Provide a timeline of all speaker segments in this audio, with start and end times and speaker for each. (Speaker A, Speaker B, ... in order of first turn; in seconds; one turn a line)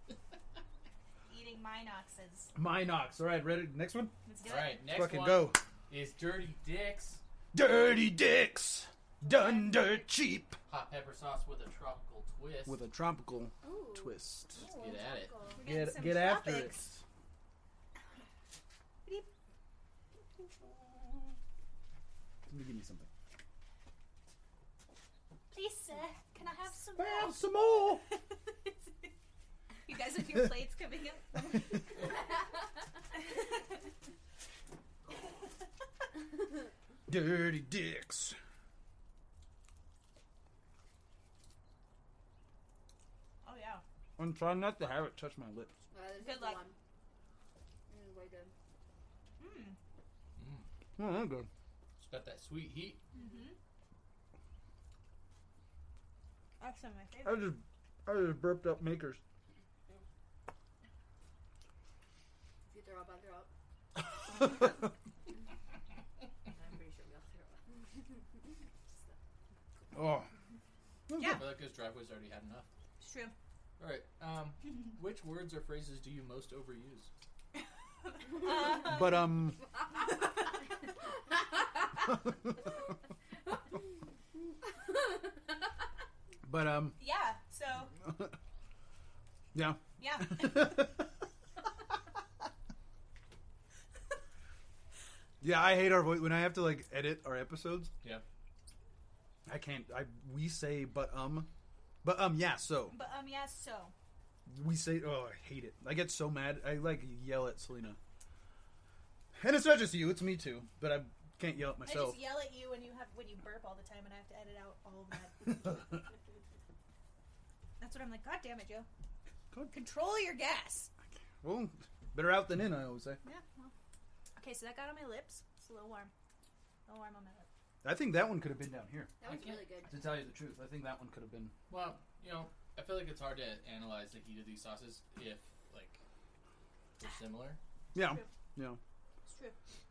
Speaker A: 1.3-2.5
Speaker B: 2.5-4.1
Speaker A: 4.2-4.8
Speaker C: 4.4-7.2
Speaker B: 4.8-5.6
Speaker B: 7.5-10.6
Speaker A: 9.2-10.0
Speaker C: 10.7-12.8
Speaker B: 12.7-14.6
Speaker D: 13.6-15.6
Speaker A: 14.6-16.8
Speaker C: 14.6-15.4
Speaker B: 15.6-17.0
Speaker B: 22.5-23.1
Speaker A: 25.5-29.1
Speaker B: 26.9-28.0
Speaker A: 29.8-31.7
Speaker B: 37.1-38.4
Speaker A: 43.4-43.8
Speaker B: 44.2-45.7
Speaker D: 45.9-46.8
Speaker A: 46.2-46.6
Speaker D: 47.9-48.5
Speaker A: 49.4-49.8
Speaker C: 50.4-50.7
Speaker B: 51.0-51.5
Speaker C: 52.0-53.0
Speaker A: 53.1-53.5
Speaker A: 56.6-57.5
Speaker B: 57.2-59.2
Speaker D: 62.6-63.5
Speaker D: 66.5-69.2
Speaker B: 69.9-70.3
Speaker B: 71.1-71.5
Speaker A: 71.2-71.4
Speaker C: 71.3-72.7
Speaker A: 73.0-73.3
Speaker C: 73.8-77.1
Speaker A: 78.0-79.2
Speaker D: 78.5-78.8
Speaker B: 78.6-79.7
Speaker D: 84.8-85.1
Speaker B: 86.4-87.0
Speaker A: 87.0-87.9
Speaker B: 88.0-88.3
Speaker B: 89.5-91.0
Speaker A: 90.0-90.7
Speaker B: 95.4-97.9
Speaker B: 99.5-101.5
Speaker B: 102.0-103.0
Speaker A: 102.9-103.9
Speaker B: 104.5-108.0
Speaker B: 109.3-112.3
Speaker A: 111.8-115.8
Speaker A: 117.8-118.9
Speaker A: 119.7-120.9
Speaker B: 121.4-123.2
Speaker A: 123.2-123.7
Speaker A: 124.3-126.1
Speaker A: 126.8-127.5
Speaker B: 127.8-129.1
Speaker D: 129.2-130.1
Speaker C: 129.2-129.7
Speaker B: 129.9-131.5
Speaker C: 131.7-136.0
Speaker C: 137.0-137.6
Speaker B: 137.9-138.8
Speaker A: 138.0-138.3
Speaker A: 139.2-139.6